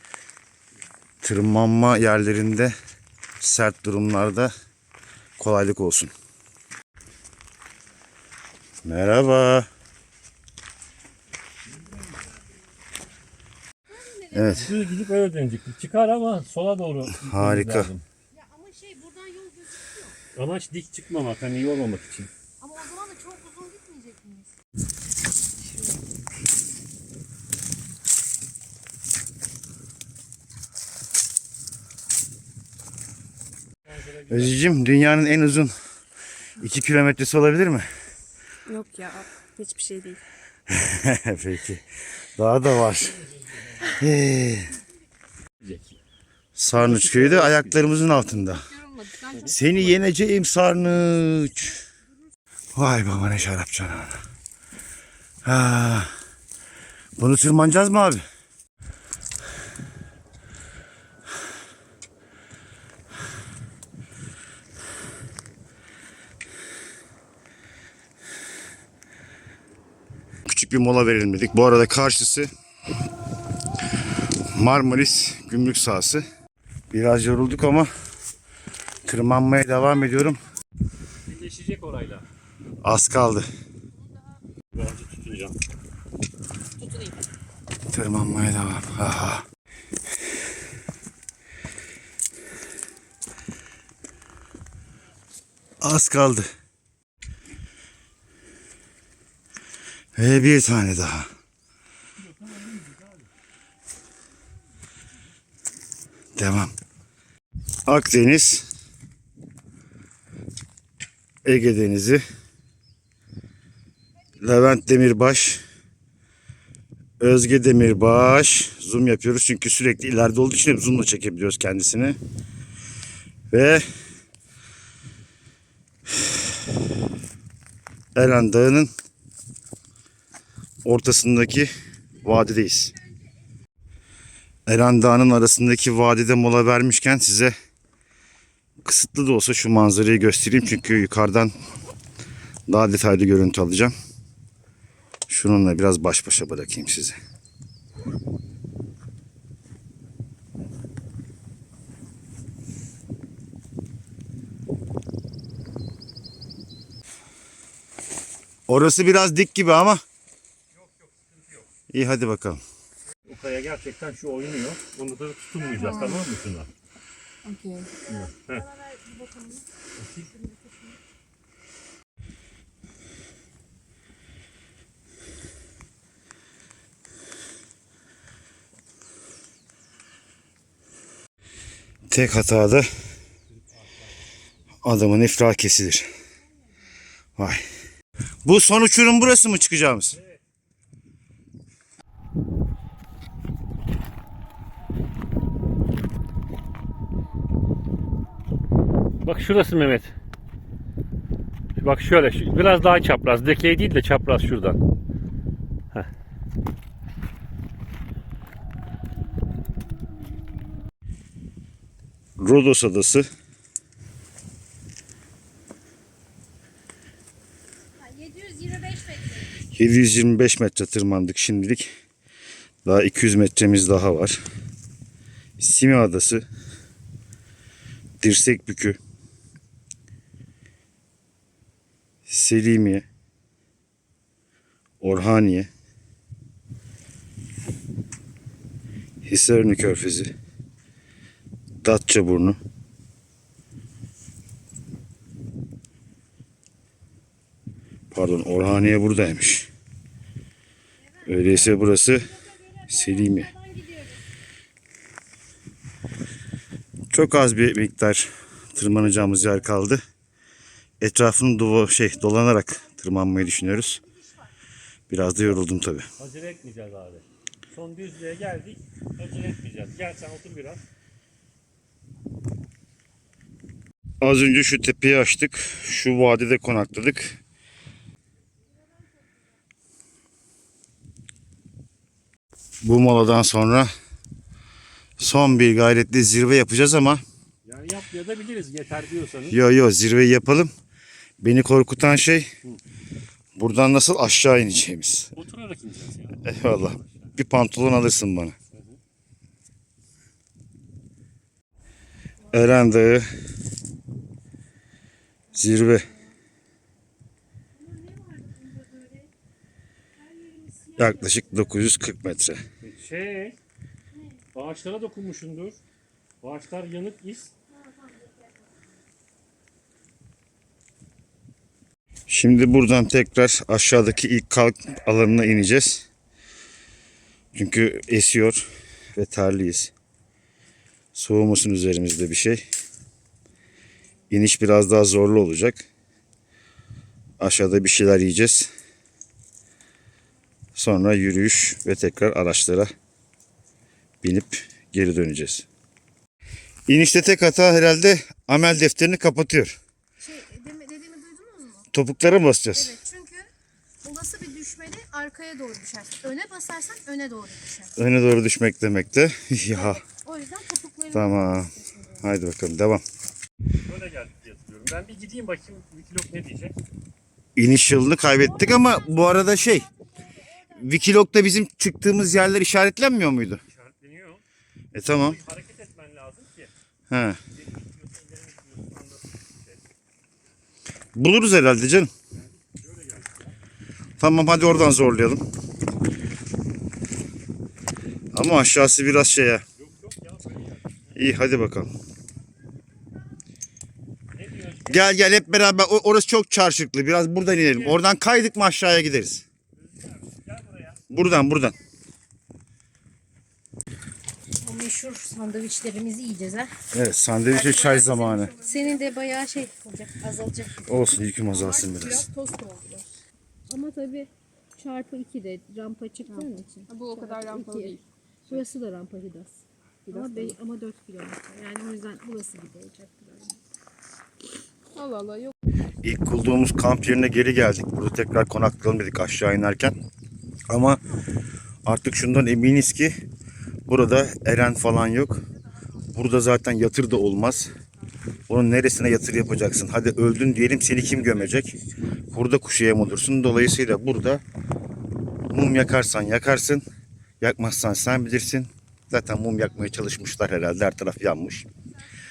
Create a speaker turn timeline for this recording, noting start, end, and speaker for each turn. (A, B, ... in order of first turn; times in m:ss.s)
0:01.2-0:02.7 A
0:03.4-0:04.5 A
0:05.4-0:06.1 A
0:08.8-0:09.7 A
0:13.9-0:14.7 B
0:14.3-0:14.7 A
0:14.6-0:18.0 C
0:17.2-0:17.9 A
0:18.3-0:20.2 B
0:20.4-0:22.3 C
0:22.6-0:24.5 B
0:33.9-0:34.6 C
0:34.3-0:35.8 A
0:36.6-0:37.9 A
0:38.7-0:40.2 D
0:40.7-0:41.8 A
0:42.4-0:43.2 A
0:43.8-0:44.8 A
0:45.6-0:46.0 C
0:46.6-0:48.8 A
0:46.8-0:47.8 C
0:49.3-0:49.6 C
0:49.4-0:51.8 A
0:52.8-0:54.2 A
0:55.4-0:56.1 A
0:57.2-0:58.2 A
1:10.5-1:12.5 A
1:14.5-1:16.3 A
1:16.9-1:17.9 A
1:19.1-1:20.4 A
1:21.3-1:22.3 C
1:22.8-1:23.5 A
1:24.7-1:25.6 C
1:26.8-1:27.2 C
1:27.9-1:29.4 A
1:35.8-1:36.5 A
1:40.2-1:41.3 A
1:42.2-1:43.2 C
1:46.4-1:46.7 A
1:47.9-1:48.7 A
1:51.4-1:52.2 A
1:54.4-1:55.6 A
1:57.2-2:02.2 A
2:03.5-2:03.8 A
2:08.2-2:08.9 A
2:10.8-2:11.7 A
2:12.2-2:13.0 A
2:14.7-2:17.5 A
2:18.8-2:21.5 A
2:22.7-2:23.9 A
2:25.3-2:27.2 A
2:38.7-2:40.0 A
2:41.0-2:41.7 C
2:41.9-2:42.6 A
2:43.2-2:46.7 C
2:45.8-2:46.2 D
2:47.4-2:47.9 D
2:48.1-2:48.7 C
2:48.1-2:49.6 B
2:50.0-2:50.4 C
3:02.1-3:02.9 A
3:04.8-3:06.1 A
3:07.4-3:07.6 A
3:08.4-3:10.2 A
3:19.2-3:20.1 C
3:21.8-3:24.8 C
3:32.4-3:33.3 A
3:38.0-3:39.5 B
3:39.7-3:41.9 A
3:42.8-3:44.4 A
3:45.6-3:46.4 A
3:48.2-3:49.0 A
3:52.3-3:53.0 A
3:55.0-3:55.7 A
3:59.2-4:00.3 A
4:01.8-4:02.6 A
4:08.1-4:09.7 A
4:11.2-4:13.6 A
4:13.6-4:14.2 B
4:17.1-4:20.0 A
4:19.1-4:19.6 C
4:21.0-4:24.0 A
4:25.1-4:26.1 A
4:26.2-4:30.8 C
4:34.2-4:37.4 A
4:42.8-4:43.9 A
4:45.2-4:47.2 A
4:47.6-4:49.6 C
4:49.5-4:50.7 A
4:51.4-4:52.5 A
4:53.6-4:55.3 A
4:55.4-4:57.1 C
4:56.4-4:58.6 A
4:58.7-4:59.0 C
5:02.5-5:03.3 A
5:05.5-5:06.1 A
5:08.0-5:09.1 B
5:10.4-5:11.4 B
5:11.0-5:12.6 A
5:12.8-5:13.6 C
5:14.5-5:15.8 C
5:16.4-5:17.5 C
5:22.3-5:26.1 A
5:27.5-5:29.9 A
5:31.1-5:32.6 A
5:34.3-5:35.9 A
5:37.4-5:38.7 A
5:40.8-5:42.9 A
5:44.2-5:45.7 A
5:46.9-5:49.8 A
5:50.2-5:51.9 B
5:51.9-5:53.0 A
5:52.7-5:53.5 B
5:54.0-5:57.9 B
5:58.0-6:00.0 A
5:59.7-6:02.2 B
6:01.1-6:03.0 A
6:03.8-6:06.8 C
6:07.6-6:09.9 A
6:08.5-6:10.7 B
6:10.7-6:13.6 A
6:13.7-6:14.4 C
6:14.9-6:15.4 A
6:15.1-6:16.7 C
6:17.1-6:17.4 A
6:17.5-6:19.8 C
6:21.2-6:22.1 A
6:22.3-6:23.5 C
6:24.2-6:25.4 A
6:28.3-6:29.6 A
6:29.8-6:31.1 C
6:31.1-6:31.9 A
6:34.3-6:35.1 C
6:34.9-6:39.4 A
6:39.8-6:41.0 C
6:41.1-6:41.8 A
6:44.6-6:46.7 B
6:46.9-6:48.6 A
6:47.5-6:50.9 B
6:50.8-6:52.3 A
6:52.0-6:53.2 D
6:53.7-6:59.6 B
6:56.4-6:58.0 D
7:00.1-7:00.5 D
7:00.1-7:03.6 B
7:05.0-7:05.5 D
7:06.0-7:10.0 A
7:10.7-7:11.0 A
7:11.8-7:13.2 A
7:13.9-7:15.4 A
7:16.1-7:17.7 A
7:18.5-7:21.7 A
7:22.3-7:24.4 A
7:25.5-7:26.8 A
7:27.4-7:31.7 A